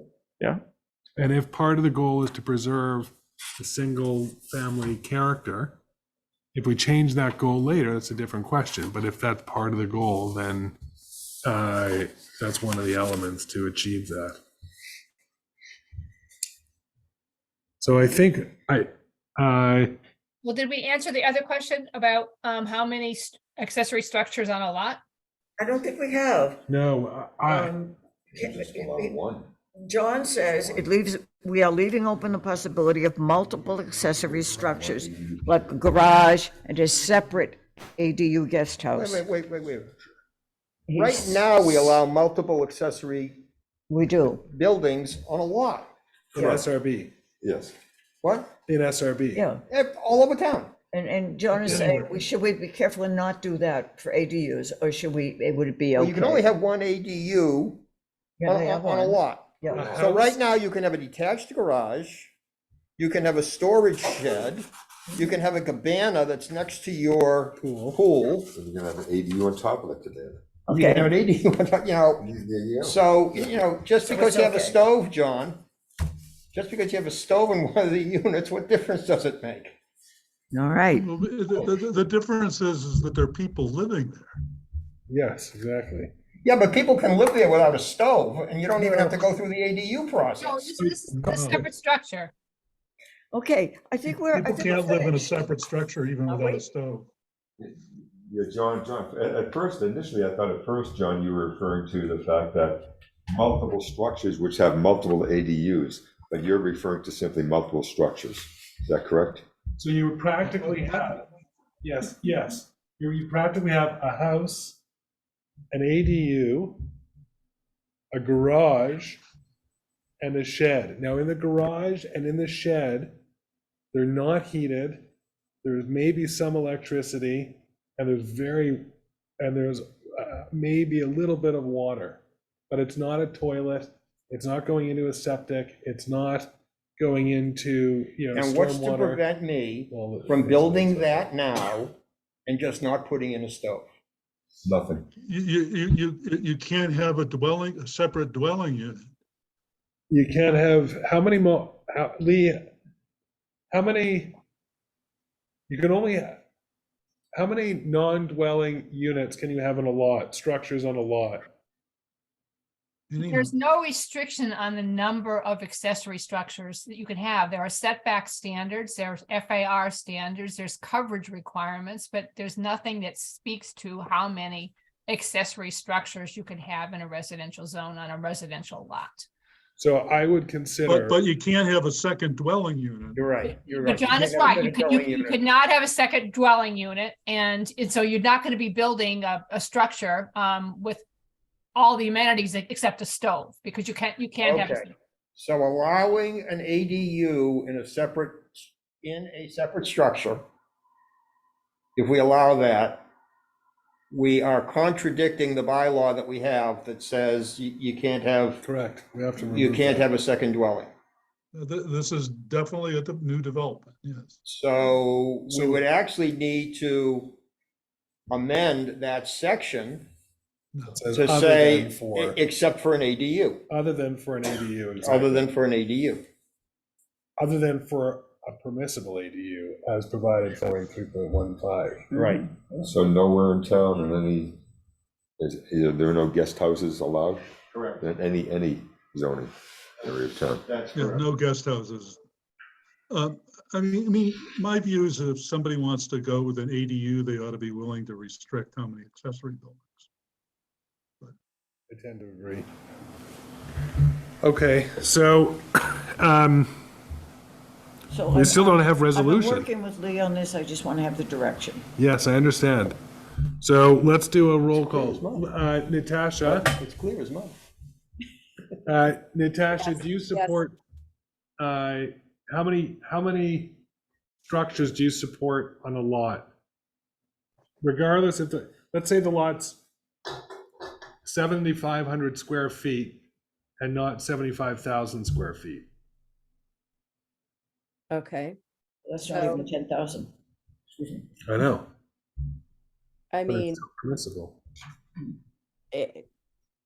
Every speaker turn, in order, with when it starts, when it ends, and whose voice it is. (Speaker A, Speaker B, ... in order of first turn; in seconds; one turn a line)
Speaker A: 1.2-5.8
Speaker A: 6.5-10.8
Speaker A: 11.4-14.4
Speaker A: 17.8-19.9
Speaker B: 20.4-25.0
Speaker C: 25.6-26.6
Speaker A: 26.7-27.7
Speaker C: 27.5-29.2
Speaker D: 28.4-29.5
Speaker C: 29.8-39.2
Speaker D: 34.4-35.7
Speaker E: 39.0-40.0
Speaker C: 40.9-41.4
Speaker E: 41.0-43.4
Speaker C: 43.9-44.4
Speaker E: 44.5-46.5
Speaker A: 46.3-47.1
Speaker D: 47.4-47.7
Speaker E: 48.2-48.5
Speaker A: 48.7-49.4
Speaker C: 49.4-49.6
Speaker E: 49.7-50.7
Speaker C: 50.9-56.5
Speaker E: 56.0-57.8
Speaker C: 58.4-60.0
Speaker E: 58.5-62.3
Speaker A: 59.7-60.4
Speaker D: 59.8-60.0
Speaker E: 63.0-68.5
Speaker A: 67.6-68.0
Speaker D: 68.5-70.4
Speaker C: 70.7-71.1
Speaker E: 70.7-72.2
Speaker D: 72.2-73.6
Speaker E: 72.8-75.6
Speaker C: 74.1-74.8
Speaker E: 76.5-79.8
Speaker C: 80.5-81.1
Speaker F: 80.9-84.3
Speaker A: 85.1-86.1
Speaker E: 86.4-90.7
Speaker C: 88.8-89.2
Speaker B: 90.4-92.3
Speaker F: 91.1-91.7
Speaker C: 93.3-95.4
Speaker F: 94.1-97.1
Speaker D: 97.6-109.5
Speaker A: 109.8-111.2
Speaker F: 110.7-111.0
Speaker A: 111.8-114.8
Speaker A: 115.7-116.8
Speaker A: 118.1-119.2
Speaker A: 120.2-123.2
Speaker A: 123.9-125.1
Speaker A: 125.6-128.9
Speaker A: 129.4-139.2
Speaker E: 138.3-141.9
Speaker A: 139.9-141.3
Speaker E: 142.5-143.9
Speaker D: 144.6-145.1
Speaker F: 145.2-149.1
Speaker A: 150.1-152.6
Speaker A: 153.7-154.3
Speaker A: 155.7-156.4
Speaker A: 157.3-161.5
Speaker F: 163.1-163.5
Speaker B: 163.2-179.3
Speaker A: 179.8-181.2
Speaker F: 180.9-183.2
Speaker E: 183.2-185.4
Speaker B: 183.7-191.0
Speaker B: 191.8-194.9
Speaker E: 194.4-200.4
Speaker E: 202.0-203.0
Speaker E: 204.1-208.6
Speaker A: 208.6-210.1
Speaker E: 209.4-210.9
Speaker F: 211.5-214.4
Speaker E: 214.4-217.4
Speaker A: 215.5-215.8
Speaker E: 218.3-220.1
Speaker F: 220.7-221.0
Speaker A: 220.9-222.4
Speaker E: 221.2-223.7
Speaker A: 223.7-225.5
Speaker E: 225.0-226.2
Speaker A: 227.4-232.1
Speaker E: 232.1-232.5
Speaker D: 232.8-234.6
Speaker D: 235.4-237.4
Speaker E: 237.7-238.0
Speaker D: 238.0-240.7
Speaker E: 240.7-241.2
Speaker F: 240.9-242.2
Speaker F: 243.1-250.1
Speaker A: 251.9-252.7
Speaker A: 254.4-256.8
Speaker C: 258.1-261.9
Speaker A: 258.3-259.7
Speaker A: 262.0-263.0
Speaker A: 263.6-266.7
Speaker E: 264.9-265.4
Speaker E: 266.4-267.5
Speaker A: 268.8-270.7
Speaker G: 269.8-270.6
Speaker A: 271.6-273.8
Speaker A: 274.5-276.5
Speaker A: 277.8-279.8
Speaker A: 281.2-283.2
Speaker A: 283.8-285.9
Speaker G: 288.1-288.6
Speaker C: 289.1-290.3
Speaker G: 289.3-289.6
Speaker A: 291.5-291.9
Speaker G: 293.3-293.8
Speaker A: 293.5-294.6
Speaker G: 295.9-296.2